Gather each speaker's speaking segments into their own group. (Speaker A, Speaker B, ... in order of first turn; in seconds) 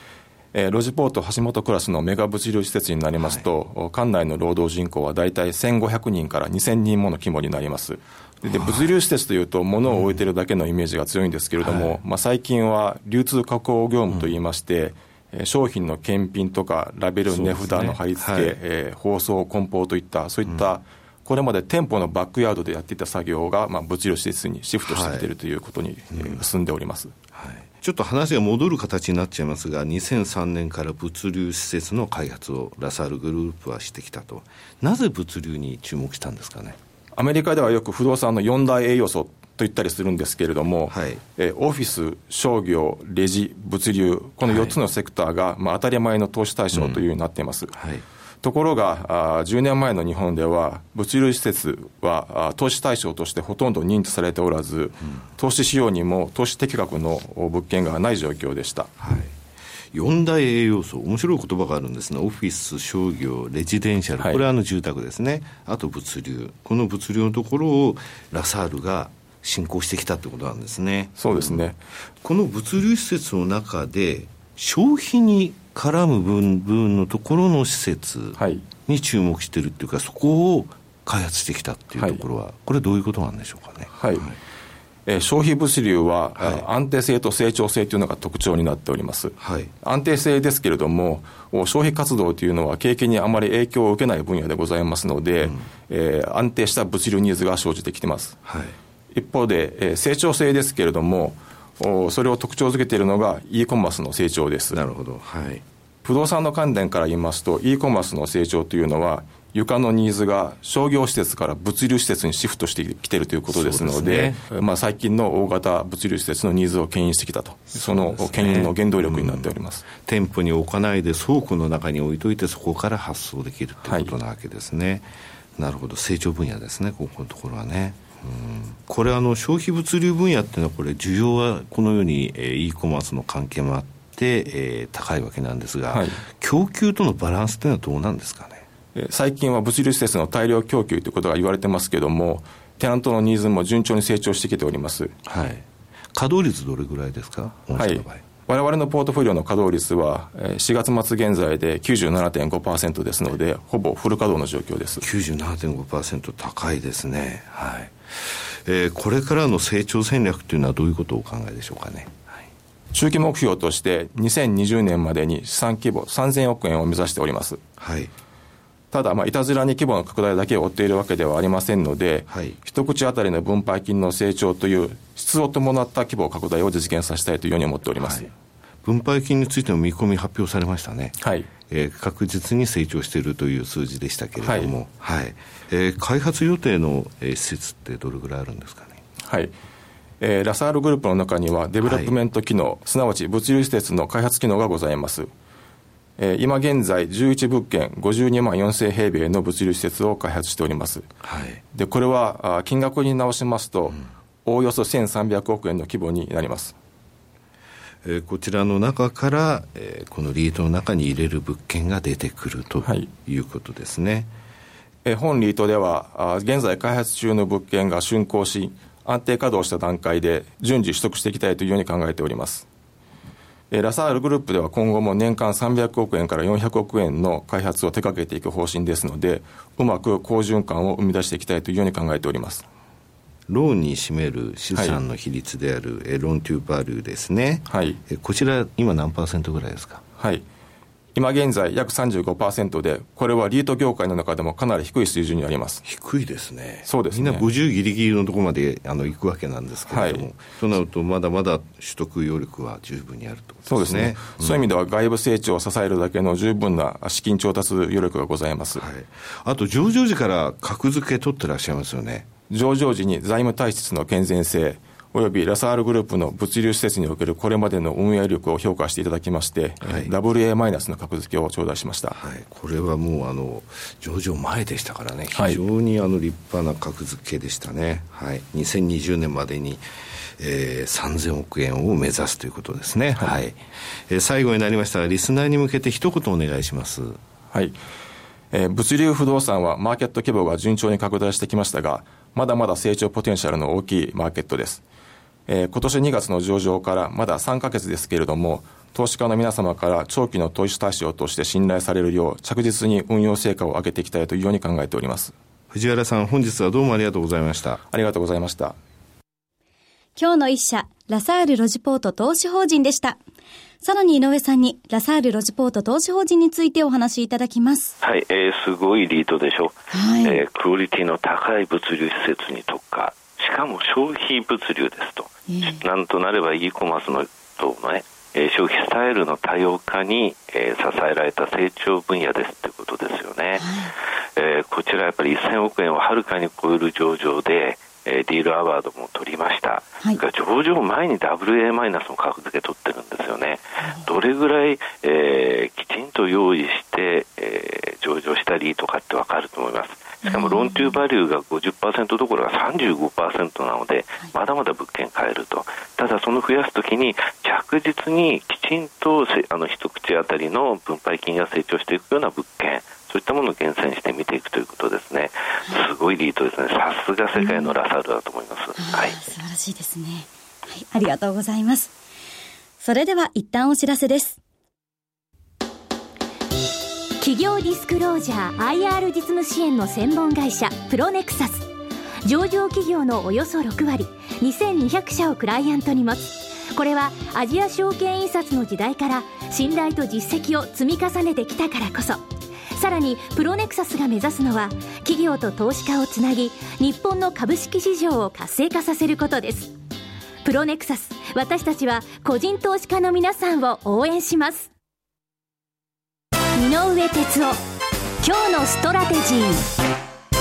Speaker A: 0.5-27.1, 37.1-47.8, 48.4-58.9, 71.2-71.8, 78.4-78.6, 82.0-82.2, 83.9-84.3, 85.0-98.4, 99.1-104.8, 106.0-119.9, 135.9-136.2, 138.9-145.1, 147.8-155.0, 162.9-167.6, 168.9-178.3, 181.2-181.5, 184.4-184.7, 189.2-189.5, 190.2-195.3, 196.2-201.1, 201.7-206.7, 215.0-222.7, 223.7-232.6, 237.7-238.0, 240.2-240.4, 241.1-245.8, 246.8-247.4, 249.9-250.2, 253.7-258.8, 262.5-272.2, 275.3-275.6, 287.5-287.8, 288.5-294.8, 295.5-305.3, 307.9-308.8
Speaker B: 3.2-3.5, 8.4-8.9, 9.9-10.2, 11.6-12.0, 14.1-14.3, 17.3-18.6, 24.8-25.3, 26.1-26.4, 27.3-36.8, 40.9-41.2, 44.4-44.8, 46.7-47.0, 47.8-48.0, 59.0-59.3, 59.9-71.6, 72.2-84.4, 86.4-86.7, 89.4-89.7, 98.5-98.7, 104.7-105.6, 113.5-114.4, 117.7-138.6, 145.2-145.6, 146.2-148.2, 155.0-162.3, 167.8-168.1, 172.3-172.6, 178.0-178.3, 178.8-189.0, 191.8-192.1, 201.2-201.6, 208.0-214.3, 233.5-240.0, 245.8-254.6, 258.8-262.3, 269.8-270.1, 272.1-279.8, 280.4-287.2, 305.7-307.8
Speaker C: 310.1-313.2, 313.8-317.9, 319.9-320.4, 325.5-325.8, 333.6-333.9, 350.2-351.0, 367.4-367.8, 368.8-371.9, 372.8-374.4
Speaker D: 318.0-333.7, 334.4-369.3
Speaker E: 377.2-381.7, 382.2-399.7, 400.4-404.7, 406.6-407.6, 408.2-409.7